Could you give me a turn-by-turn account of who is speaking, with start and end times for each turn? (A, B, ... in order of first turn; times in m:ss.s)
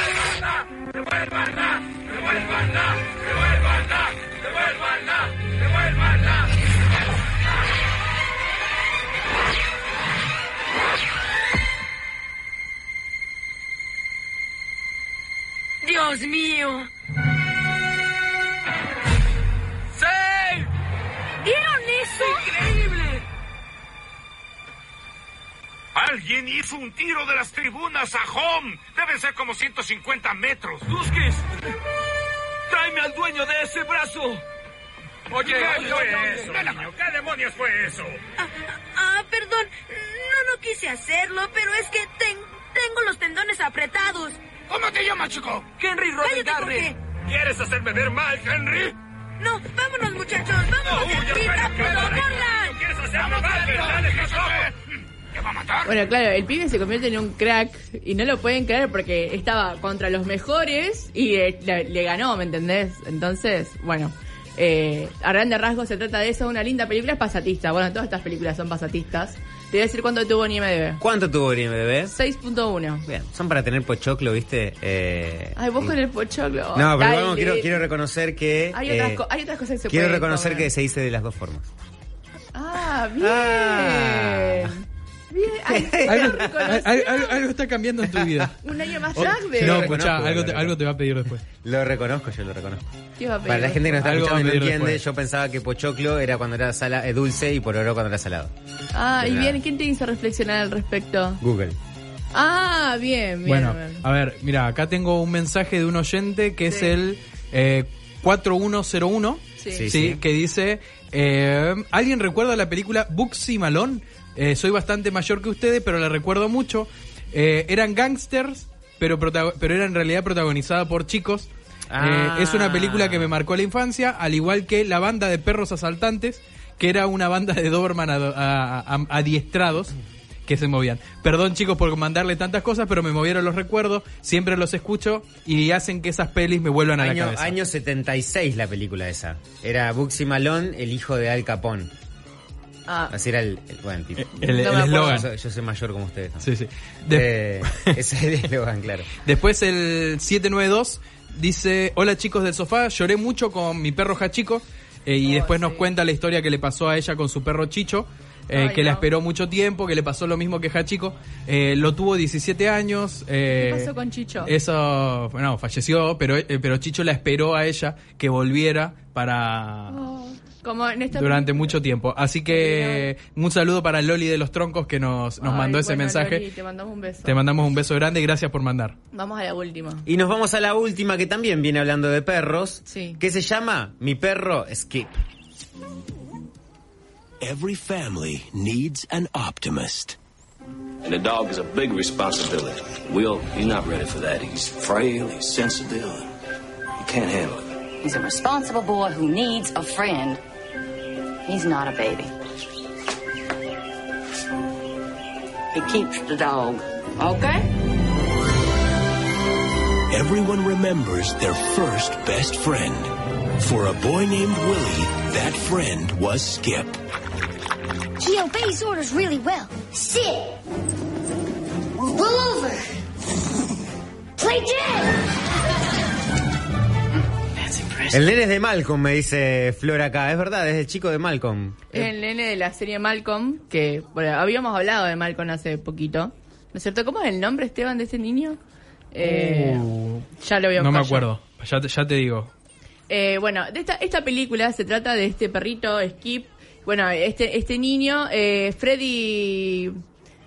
0:15.9-0:16.8 A
0:20.0-0:20.6 B
0:22.4-0:23.2 B
0:25.9-0:31.4 B
0:32.7-0:34.4 B
0:35.3-0:38.2 B
0:40.6-0:42.4 A
0:43.6-0:44.3 A
0:44.7-0:46.5 B
0:46.2-0:46.9 A
0:47.2-0:48.9 B
0:49.6-0:52.8 A
0:51.0-0:54.7 B
0:51.6-0:52.2 C
0:55.3-0:55.9 B
0:55.8-1:11.0 D
1:11.0-1:12.1 E
1:12.1-1:13.0 D
1:13.0-1:15.9 E
1:15.6-1:17.8 D
1:16.7-1:19.2 E
1:18.7-1:20.7 D
1:19.9-1:21.7 E
1:22.5-1:27.4 D
1:23.2-1:24.7 E
1:25.6-1:26.7 E
1:26.0-1:31.4 F
1:28.6-1:30.0 D
1:29.1-1:30.8 E
1:31.6-1:38.5 E
1:33.2-1:34.0 D
1:34.0-1:35.0 F
1:38.9-1:41.4 D
1:39.2-1:39.6 E
1:41.4-1:41.8 E
1:42.3-1:44.0 D
1:43.4-2:09.9 F
1:46.7-1:46.9 D
1:49.6-1:49.8 D
1:49.7-1:50.2 E
2:01.9-2:03.3 E
2:10.5-2:17.6 F
2:17.0-2:21.9 E
2:22.9-2:23.1 D
2:23.1-2:26.5 E
2:24.2-2:25.3 F
2:24.6-2:25.3 D
2:26.4-2:27.9 F
2:27.1-2:29.1 E
2:29.2-2:43.9 F
2:35.2-2:35.8 D
2:38.5-2:39.0 D
2:43.5-2:44.5 D
2:44.4-2:50.0 F
2:49.9-2:51.8 D
2:51.1-2:56.4 F
2:52.5-2:53.1 D
2:55.4-2:57.4 D
2:57.2-2:59.0 F
2:59.1-3:00.0 D
3:00.0-3:05.2 E
3:02.9-3:03.2 D
3:07.4-3:10.2 G
3:11.0-3:16.3 H
3:17.0-3:17.7 H
3:18.0-3:20.4 I
3:21.4-3:22.3 I
3:25.7-3:27.7 I
3:30.1-3:37.0 G
3:38.2-3:40.5 C
3:42.0-3:42.8 C
3:44.4-3:45.1 C
3:48.1-3:51.8 E
3:51.9-3:58.6 D
3:59.1-3:59.9 D
3:59.2-4:00.2 F
4:00.4-4:01.3 D
4:00.8-4:02.5 F
4:03.1-4:10.0 D